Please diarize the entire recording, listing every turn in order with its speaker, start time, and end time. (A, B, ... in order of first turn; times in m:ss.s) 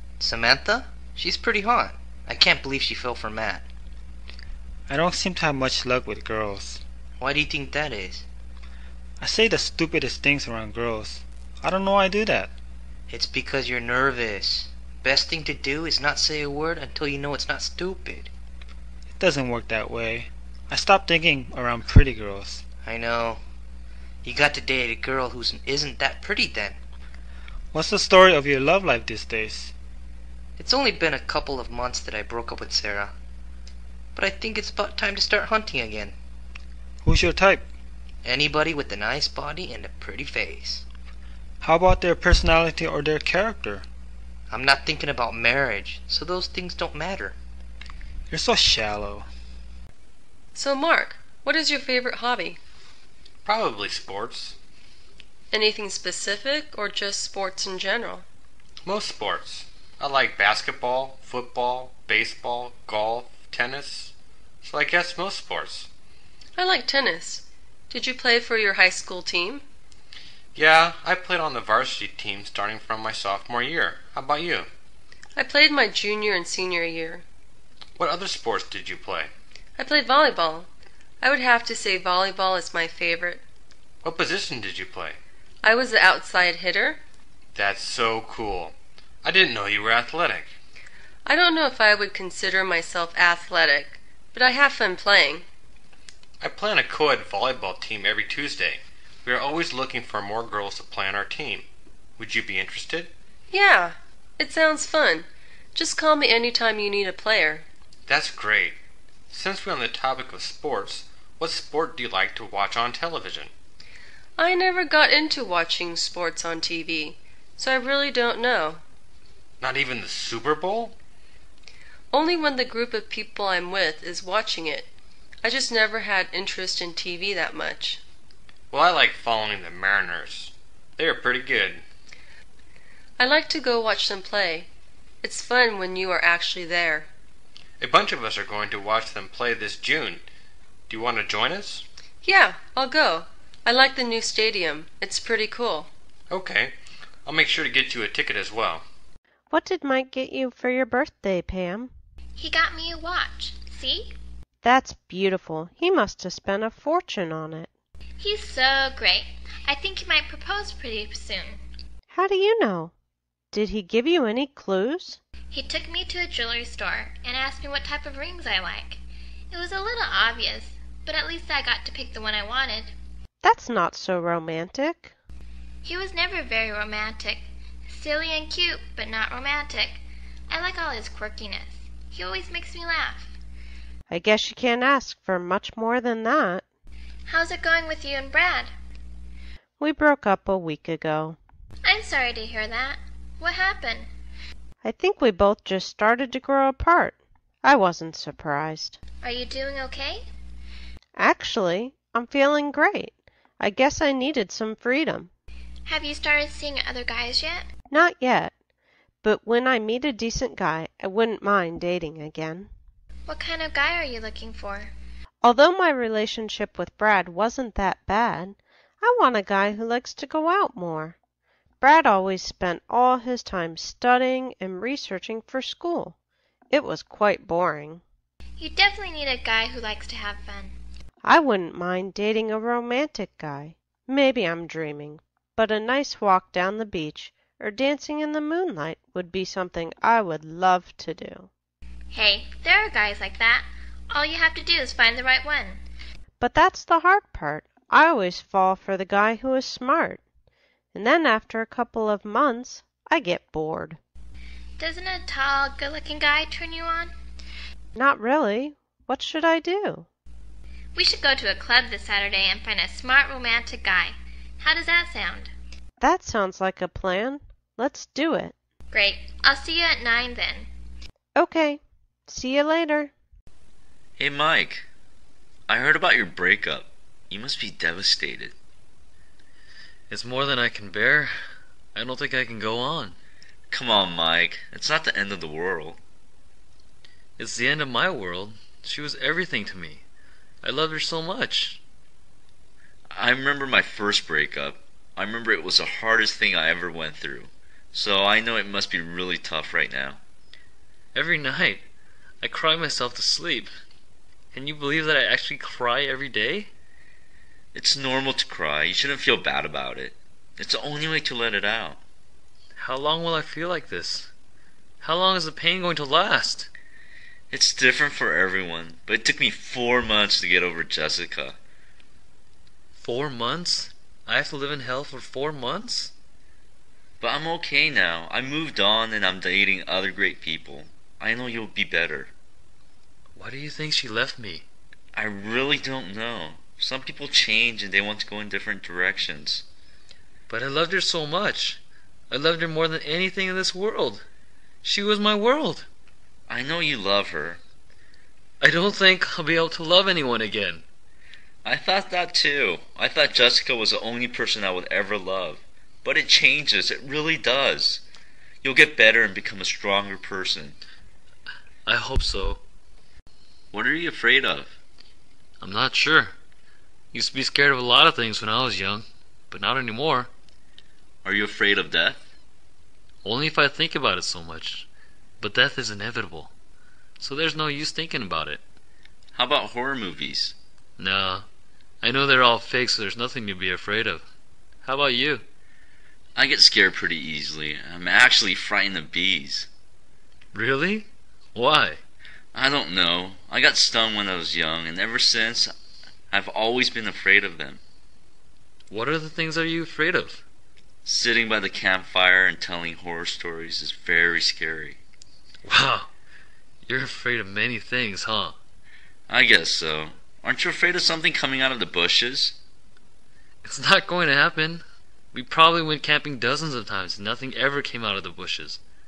0:00.2-0:03.7 A
0:04.9-0:06.8 B
0:07.2-0:08.2 A
0:09.2-0:12.5 B
0:13.1-0:18.3 A
0:19.2-0:22.6 B
0:22.8-0:23.4 A
0:24.2-0:26.8 A
0:27.7-0:29.7 B
0:30.6-0:33.1 A
0:34.2-0:36.2 A
0:37.0-0:37.7 B
0:38.2-0:40.8 A
0:41.6-0:43.8 B
0:44.5-0:47.4 A
0:48.3-0:49.3 B
0:50.6-0:52.6 C
0:53.4-0:54.6 D
0:55.5-0:58.2 C
0:58.8-1:05.9 D
1:06.6-1:09.6 C
1:10.6-1:14.7 D
1:15.4-1:17.2 C
1:18.0-1:19.3 D
1:19.8-1:20.7 C
1:21.2-1:23.4 C
1:24.0-1:25.2 D
1:25.6-1:27.0 C
1:27.6-1:30.5 D
1:31.3-1:35.4 C
1:36.4-1:41.7 D
1:42.2-1:43.1 D
1:43.5-1:47.6 C
1:48.1-1:48.8 D
1:49.3-1:53.5 D
1:54.4-1:58.8 C
1:59.6-2:01.0 D
2:02.1-2:04.9 C
2:05.4-2:08.0 C
2:08.7-2:11.8 D
2:13.2-2:14.7 C
2:15.2-2:17.1 C
2:17.8-2:20.2 D
2:20.9-2:21.8 D
2:22.2-2:25.9 C
2:26.3-2:28.8 D
2:29.5-2:31.9 E
2:32.4-2:34.2 F
2:34.6-2:37.7 E
2:38.2-2:41.6 F
2:42.1-2:42.9 E
2:43.5-2:45.2 E
2:45.5-2:49.0 F
2:49.5-2:52.9 F
2:53.4-2:55.1 E
2:55.8-3:03.3 F
3:04.1-3:06.6 E
3:07.3-3:08.7 F
3:09.8-3:11.4 E
3:11.8-3:14.1 F
3:14.8-3:19.0 E
3:19.2-3:20.3 F
3:21.2-3:25.3 E
3:25.9-3:27.7 F
3:27.9-3:28.5 E
3:29.2-3:32.7 E
3:33.3-3:34.9 F
3:35.4-3:41.2 E
3:41.8-3:46.2 E
3:46.7-3:48.0 E
3:48.6-3:50.8 F
3:51.2-4:01.5 E
4:02.1-4:05.8 F
4:06.4-4:10.2 E
4:10.9-4:14.0 E
4:14.8-4:17.1 F
4:18.0-4:20.1 E
4:21.0-4:25.5 F
4:26.0-4:28.5 E
4:28.9-4:30.7 F
4:31.4-4:33.1 E
4:34.2-4:34.9 G
4:35.7-4:38.5 G
4:40.1-4:41.4 H
4:42.0-4:43.2 H
4:43.7-4:46.0 G
4:47.4-4:50.0 H
4:50.6-4:51.8 H
4:53.1-5:00.2 G
5:01.1-5:01.9 H
5:02.4-5:03.7 H
5:04.5-5:06.7 H
5:07.7-5:12.0 G
5:12.8-5:14.3 H
5:15.0-5:16.7 H
5:17.5-5:21.6 G
5:23.0-5:26.1 H
5:27.2-5:32.3 G
5:33.4-5:34.6 H
5:35.1-5:39.6 G
5:40.5-5:44.2 H
5:44.8-5:45.9 H
5:46.5-5:47.6 G
5:48.6-5:50.8 H
5:51.6-5:58.0 G
5:58.6-6:00.8 G
6:01.9-6:02.6 H
6:03.7-6:04.8 G
6:05.6-6:06.3 H
6:07.1-6:10.3 H
6:11.2-6:12.3 G
6:13.2-6:14.9 H
6:15.4-6:16.5 H
6:17.2-6:18.6 H
6:19.3-6:20.6 G
6:21.0-6:21.5 H
6:22.0-6:24.2 H
6:24.8-6:25.4 H
6:26.4-6:29.7 G
6:30.5-6:32.0 H
6:32.5-6:35.7 G
6:36.3-6:37.8 G
6:38.9-6:40.4 H
6:41.0-6:45.0 G
6:45.6-6:46.1 H
6:46.8-6:48.6 H
6:49.3-6:52.6 G
6:53.6-6:58.8 H